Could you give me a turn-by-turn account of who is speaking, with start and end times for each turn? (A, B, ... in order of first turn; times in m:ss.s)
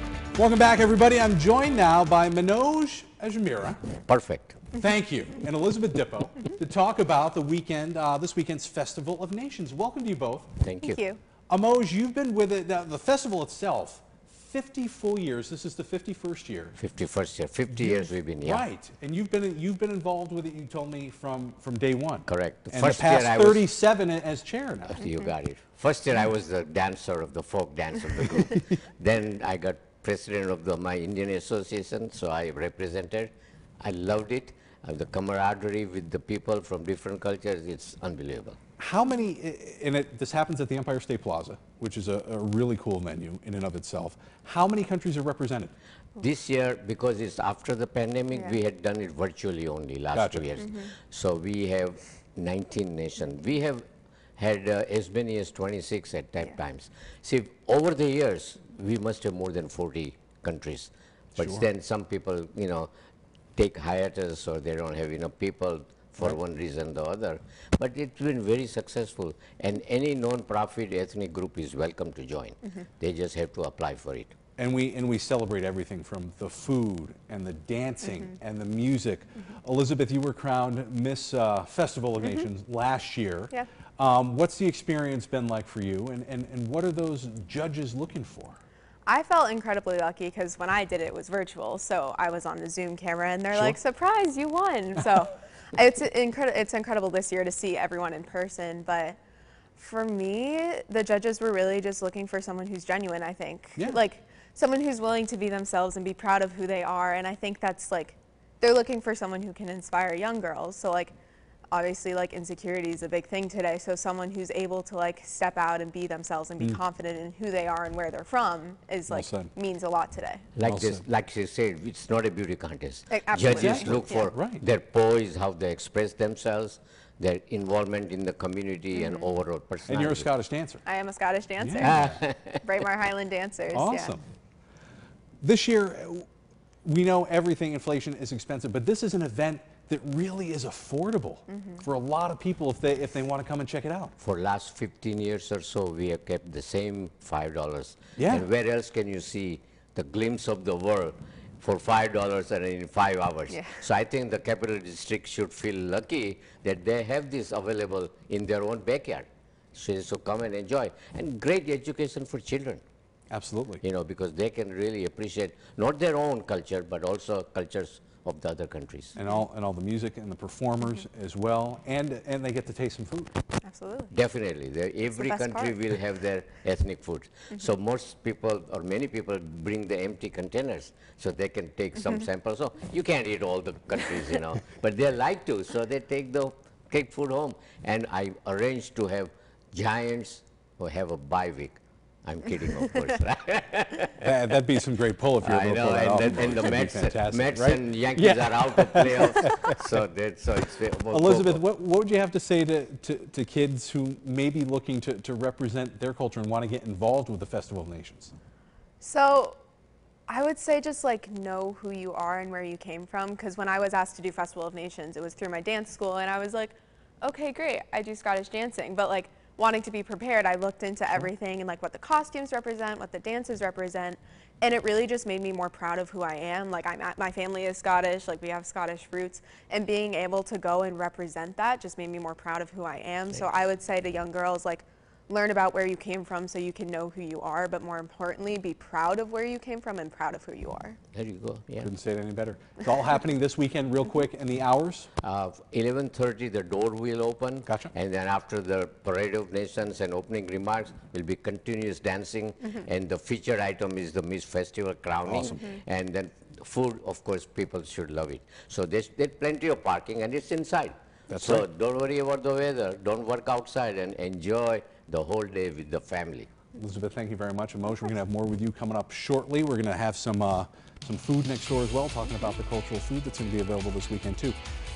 0:00.3-0:03.8 A
0:04.1-0:04.6 B
0:04.7-0:10.5 A
0:10.6-0:11.0 B
0:10.8-0:11.2 C
0:11.5-0:16.8 A
0:16.8-0:18.6 B
0:17.7-0:25.0 A
0:22.2-0:23.7 B
0:24.9-0:38.6 B
0:38.8-0:45.7 A
0:46.2-0:53.8 B
0:48.3-0:48.6 C
0:50.1-0:50.4 A
0:50.6-0:50.9 C
0:54.4-1:02.9 B
1:01.3-1:01.6 A
1:03.6-1:14.3 B
1:14.6-1:28.6 A
1:29.0-1:39.2 C
1:39.8-1:51.1 C
1:51.7-2:00.4 C
1:59.1-1:59.5 A
2:00.5-2:10.3 B
2:00.6-2:01.0 A
2:03.1-2:04.3 C
2:03.5-2:04.6 A
2:08.9-2:09.3 C
2:09.9-2:10.8 A
2:10.8-2:14.2 C
2:11.6-2:12.2 A
2:11.8-2:12.6 B
2:13.7-2:14.2 A
2:15.4-2:16.2 A
2:16.8-2:24.1 A
2:21.5-2:21.8 C
2:24.2-2:42.8 B
2:28.2-2:28.4 A
2:33.5-2:33.8 C
2:43.3-2:43.8 A
2:43.8-2:49.2 B
2:49.1-2:53.3 A
2:53.6-2:54.1 C
2:54.1-3:14.2 B
2:55.0-2:55.8 C
3:14.2-3:19.7 A
3:15.4-3:21.6 B
3:21.1-3:28.3 A
3:29.0-3:29.6 C
3:30.3-4:01.0 C
4:01.1-4:01.9 B
4:01.8-4:05.1 A
4:05.2-4:26.5 B
4:15.2-4:15.7 A
4:21.3-4:21.6 A
4:26.7-4:34.6 A